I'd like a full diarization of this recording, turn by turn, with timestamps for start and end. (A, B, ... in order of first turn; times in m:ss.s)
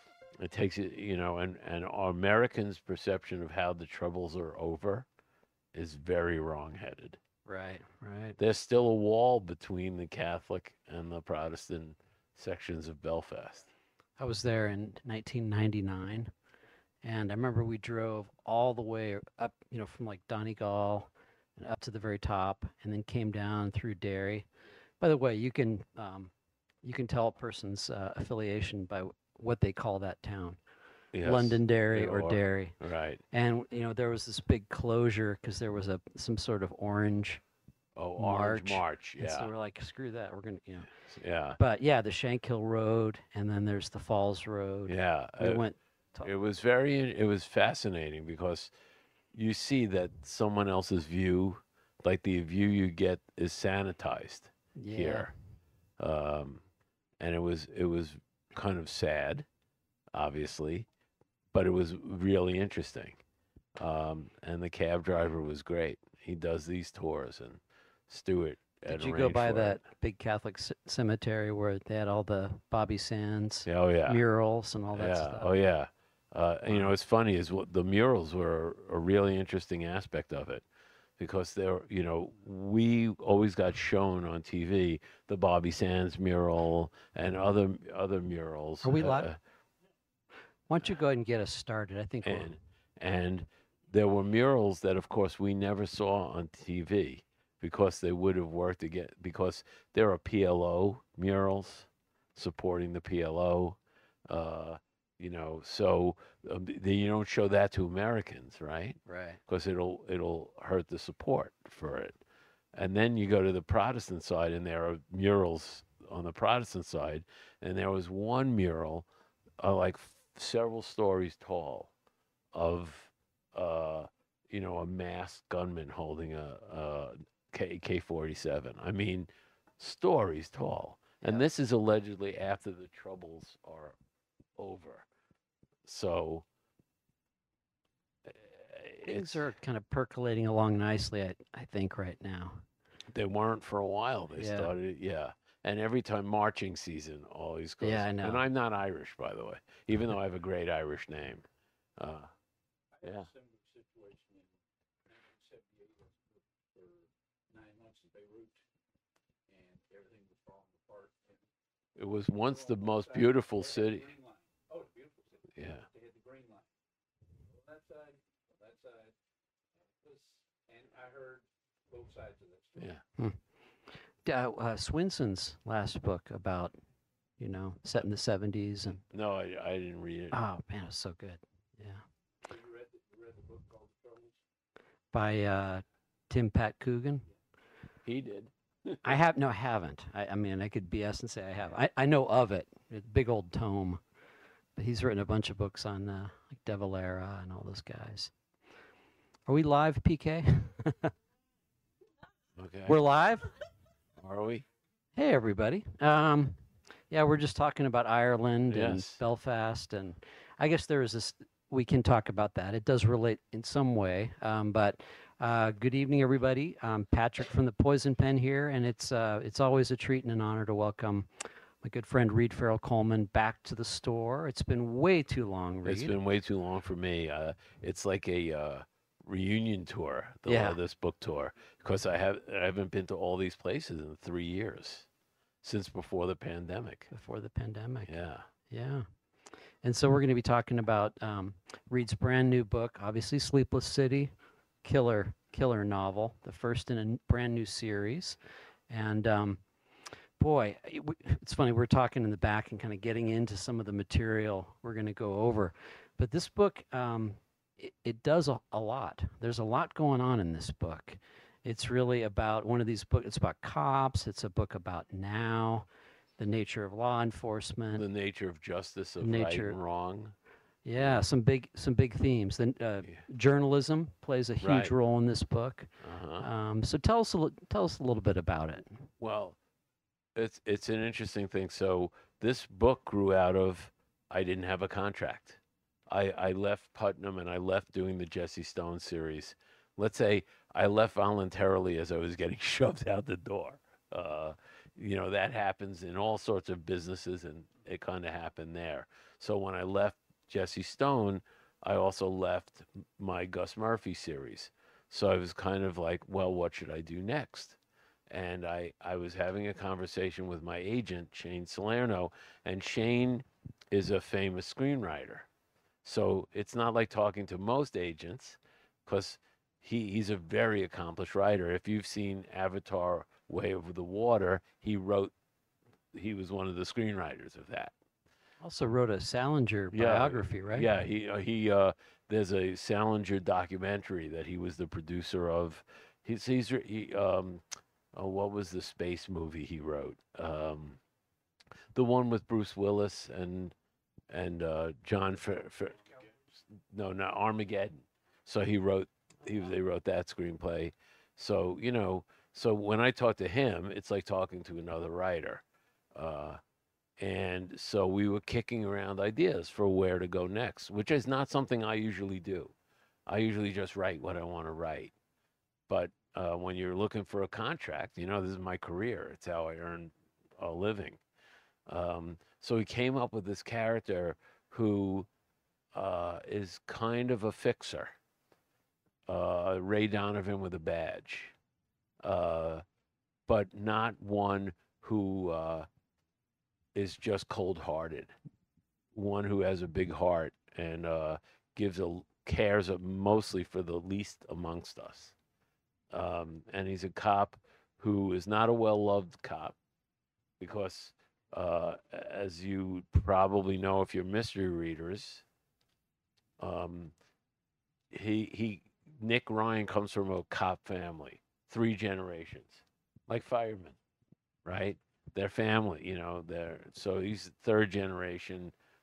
0:00.4-0:05.1 A
0:05.7-0:07.2 A
0:07.4-0:08.4 B
0:08.4-0:13.7 A
0:14.2-0:16.3 B
0:17.0-0:24.5 B
0:25.0-0:26.3 B
0:26.8-0:30.6 B
0:31.1-0:33.2 A
0:31.2-0:32.8 B
0:33.3-0:37.4 B
0:38.0-0:39.5 A
0:38.2-0:40.9 B
0:41.1-0:41.6 A
0:41.6-0:46.3 B
0:44.9-0:45.6 A
0:46.2-0:48.7 A
0:49.3-0:55.3 A
0:54.8-0:55.3 B
0:56.0-0:56.6 A
0:57.2-0:59.4 A
1:00.1-1:00.9 A
1:01.5-1:03.2 A
1:03.8-1:09.8 A
1:08.9-1:15.5 B
1:13.6-1:14.2 A
1:14.9-1:20.6 A
1:21.2-1:29.4 A
1:28.8-1:29.3 B
1:30.7-1:32.5 B
1:32.2-1:52.2 A
1:49.0-1:49.4 B
1:52.7-1:59.1 A
1:59.6-2:01.9 A
2:02.5-2:14.0 A
2:14.6-2:15.1 A
2:15.8-2:16.4 A
2:18.2-2:19.4 A
2:19.0-2:22.6 B
2:23.1-2:31.4 A
2:24.4-2:24.7 B
2:27.8-2:28.4 B
2:32.0-2:32.3 A
2:33.0-2:34.5 C
2:33.0-2:33.3 A
2:35.0-2:38.6 C
2:39.5-2:41.4 C
2:42.0-2:44.1 A
2:42.4-2:46.7 C
2:45.6-2:45.8 A
2:47.5-2:49.1 C
2:50.0-2:52.9 C
2:52.8-2:53.0 A
2:54.2-2:56.8 B
2:57.4-2:59.0 B
2:59.1-3:00.4 A
3:00.3-3:02.0 B
3:02.4-3:04.4 C
3:05.1-3:07.2 B
3:08.0-3:09.2 A
3:09.0-3:14.0 B
3:14.8-3:18.3 B
3:19.5-3:21.1 B
3:22.6-3:23.0 A
3:22.9-3:23.6 B
3:24.2-3:24.6 A
3:25.1-3:46.2 B
3:28.7-3:29.2 A
3:45.8-3:55.1 A
3:50.4-3:50.8 B
3:55.6-3:57.1 A
3:57.1-3:58.1 B
3:58.1-3:58.5 A
3:58.7-3:59.1 B
3:59.8-4:04.3 B
4:04.8-4:08.4 B
4:08.9-4:09.6 B
4:10.4-4:25.9 B
4:26.4-4:28.0 B
4:27.9-4:30.3 A
4:29.2-4:29.8 B
4:30.8-4:39.1 B
4:31.0-4:31.2 A
4:34.6-4:34.9 A
4:36.0-4:36.5 A
4:39.2-4:39.6 A
4:40.3-5:07.8 A
5:08.3-5:15.5 A
5:16.0-5:25.3 A
5:26.1-5:27.9 A
5:28.6-5:30.9 B
5:29.9-5:41.0 A
5:41.9-5:43.7 A
5:44.3-5:46.2 A
5:46.7-5:56.6 A
5:57.2-6:02.7 A
6:03.3-6:05.1 A
6:05.9-6:11.2 A
6:11.9-6:15.3 A
6:15.9-6:18.1 A
6:19.3-6:21.5 A
6:22.2-6:22.8 A
6:23.5-6:25.9 A
6:26.9-6:28.3 A
6:29.1-6:35.3 A
6:36.1-6:39.8 A
6:40.6-6:45.4 A
6:46.6-6:47.1 A
6:48.1-6:54.0 A
6:54.6-6:58.7 A